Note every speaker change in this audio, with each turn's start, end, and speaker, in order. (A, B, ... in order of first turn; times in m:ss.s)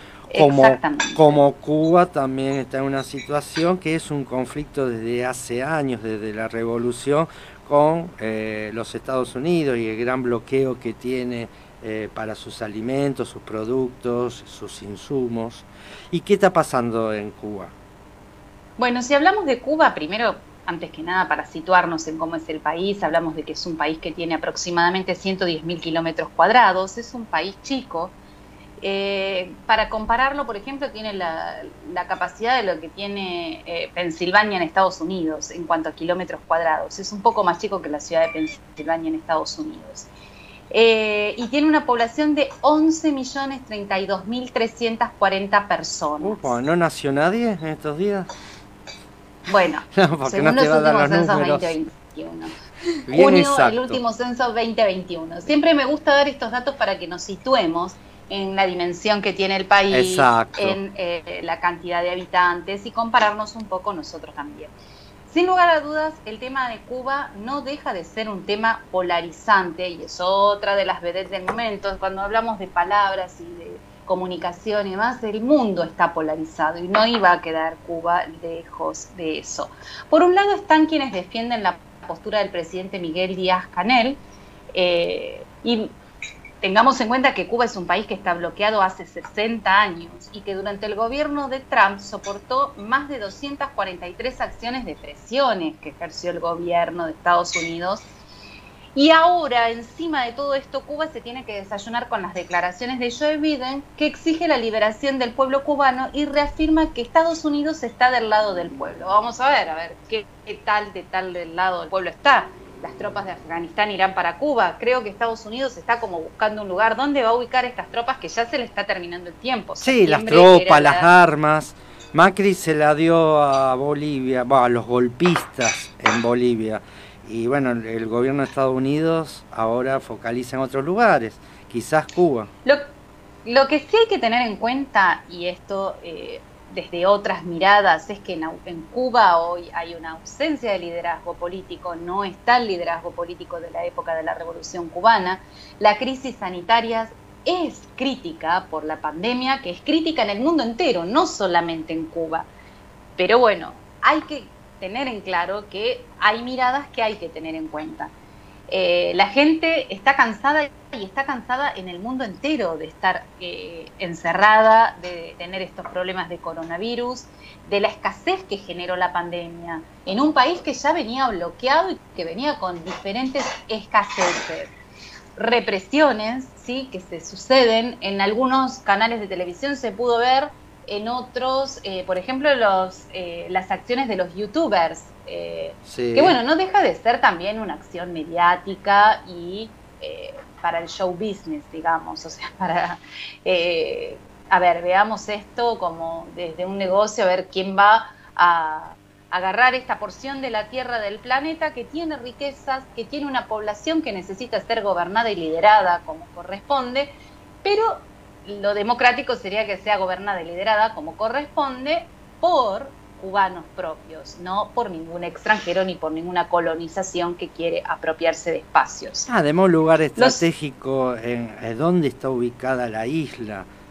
0:00.3-0:01.4 A
0:00.4-0:17.7 B
0:18.8-0:28.2 A
0:28.8-0:40.1 A
0:40.7-0:46.6 A
0:46.2-0:48.3 B
0:49.5-0:52.5 A
0:49.9-0:51.8 B
0:53.1-0:54.0 B
0:53.1-1:04.7 A
0:59.9-1:00.8 B
1:05.3-1:24.2 A
1:24.7-1:25.9 A
1:26.6-1:38.1 A
1:39.0-2:01.1 A
1:59.8-2:12.5 B
2:13.4-2:32.5 A
2:33.2-2:38.1 A
2:38.7-2:54.7 A
2:55.4-3:27.1 A
3:05.9-3:06.4 B
3:27.6-3:39.3 A
3:39.3-3:43.7 B
3:40.2-3:40.4 A